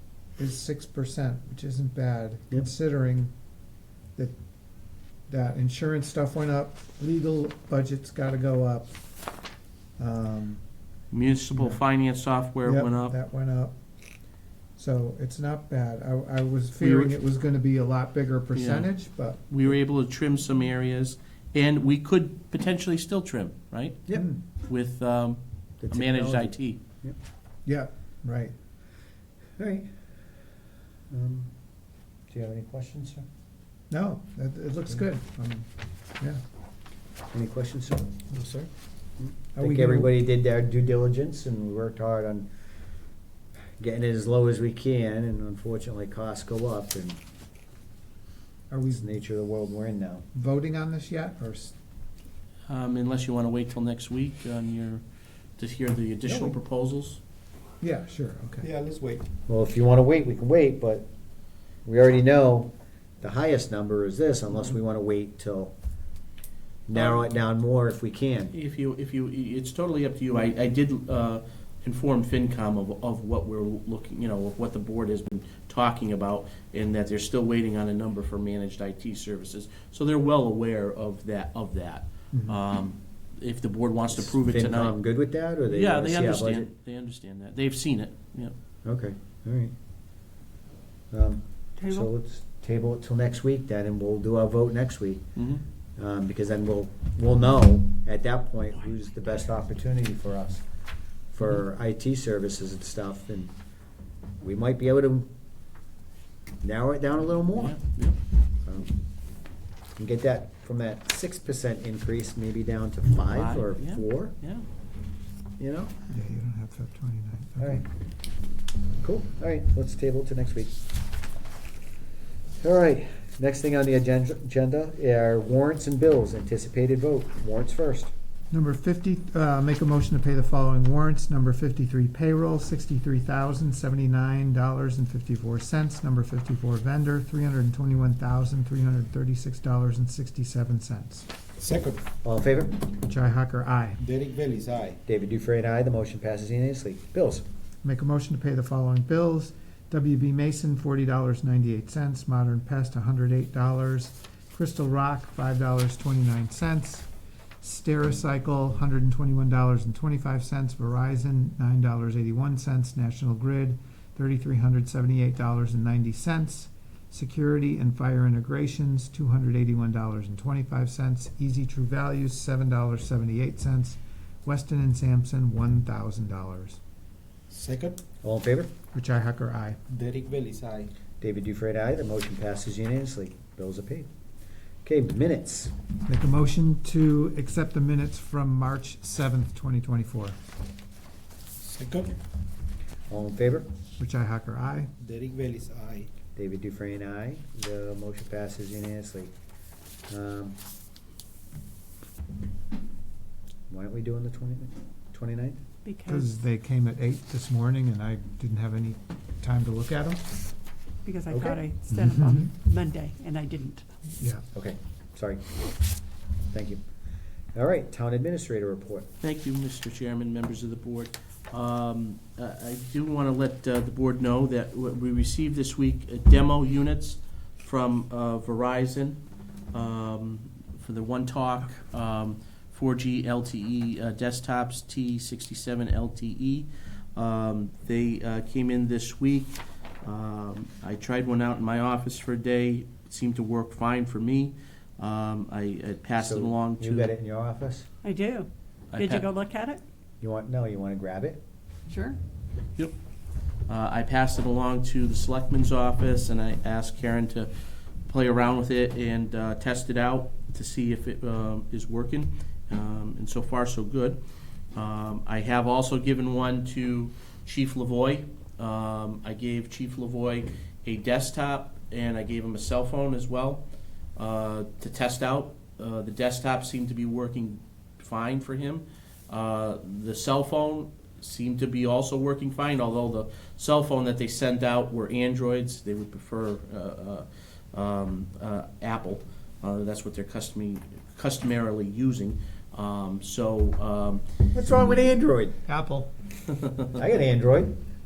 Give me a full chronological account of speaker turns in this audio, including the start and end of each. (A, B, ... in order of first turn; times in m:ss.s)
0:00.4-0:03.3 A
0:05.3-0:08.9 A
0:10.0-0:10.6 A
0:11.1-0:13.1 B
0:11.5-0:11.8 A
0:12.6-0:13.7 A
0:14.8-0:19.4 A
0:16.8-0:17.1 B
0:18.5-0:18.9 B
0:19.5-0:24.0 B
0:24.1-0:24.4 C
0:24.7-0:26.8 B
0:25.8-0:27.2 C
0:27.6-0:28.5 A
0:29.6-0:29.9 C
0:31.1-0:31.5 C
0:32.3-0:33.2 C
0:33.9-0:35.6 A
0:37.3-0:38.2 C
0:39.2-0:42.5 C
0:39.6-0:40.1 A
0:43.8-0:47.2 C
0:48.7-0:49.0 A
0:48.9-0:50.2 C
0:50.3-0:51.7 A
0:52.7-0:55.0 B
0:55.6-0:57.2 B
0:56.2-0:56.6 A
0:57.8-0:58.7 A
0:58.6-0:59.3 D
0:59.5-1:01.0 C
1:01.8-1:05.7 C
1:06.9-1:08.5 C
1:08.5-1:25.0 B
1:24.2-1:26.7 C
1:25.7-1:28.5 B
1:28.8-1:29.7 C
1:31.1-1:35.2 C
1:31.8-1:32.1 E
1:35.4-1:35.6 B
1:36.0-1:40.6 C
1:41.3-1:43.5 C
1:44.4-1:45.3 C
1:46.6-1:47.8 C
1:47.6-1:48.2 B
1:48.6-1:49.0 C
1:50.0-1:54.3 C
1:53.3-1:54.6 B
1:55.6-1:55.9 C
1:56.1-1:57.8 A
1:57.6-1:57.8 C
1:59.0-2:00.7 C
2:02.6-2:08.1 C
2:08.5-2:21.3 A
2:21.6-2:22.1 D
2:22.2-2:22.8 C
2:23.0-2:24.0 A
2:24.0-2:25.0 D
2:25.0-2:27.4 C
2:27.8-2:37.1 A
2:37.6-2:56.8 A
2:57.5-2:58.0 D
2:58.2-2:58.7 C
2:58.9-2:59.8 A
2:59.9-3:00.9 D
3:01.2-3:04.1 C
3:04.8-3:05.7 C
3:06.1-3:10.4 A
3:11.6-3:12.2 D
3:13.1-3:13.7 C
3:14.0-3:14.9 A
3:15.0-3:16.1 D
3:16.3-3:19.3 C
3:20.1-3:20.6 C
3:23.7-3:25.6 C
3:25.8-3:26.3 E
3:26.0-3:30.2 A
3:31.0-3:33.8 E
3:31.3-3:31.6 C
3:31.9-3:32.5 A
3:34.5-3:35.6 C
3:36.5-3:36.8 C
3:37.5-3:39.1 C
3:39.2-3:49.2 B
3:49.7-4:07.1 B
4:06.2-4:07.8 C
4:08.0-4:09.8 E
4:08.9-4:09.3 B
4:10.2-4:11.4 C
4:11.9-4:12.2 E
4:13.7-4:17.5 B
4:18.0-4:24.2 B
4:24.7-4:33.6 B
4:34.2-4:54.2 B
4:54.5-4:55.6 C
4:54.9-4:56.1 A
4:56.9-4:57.8 C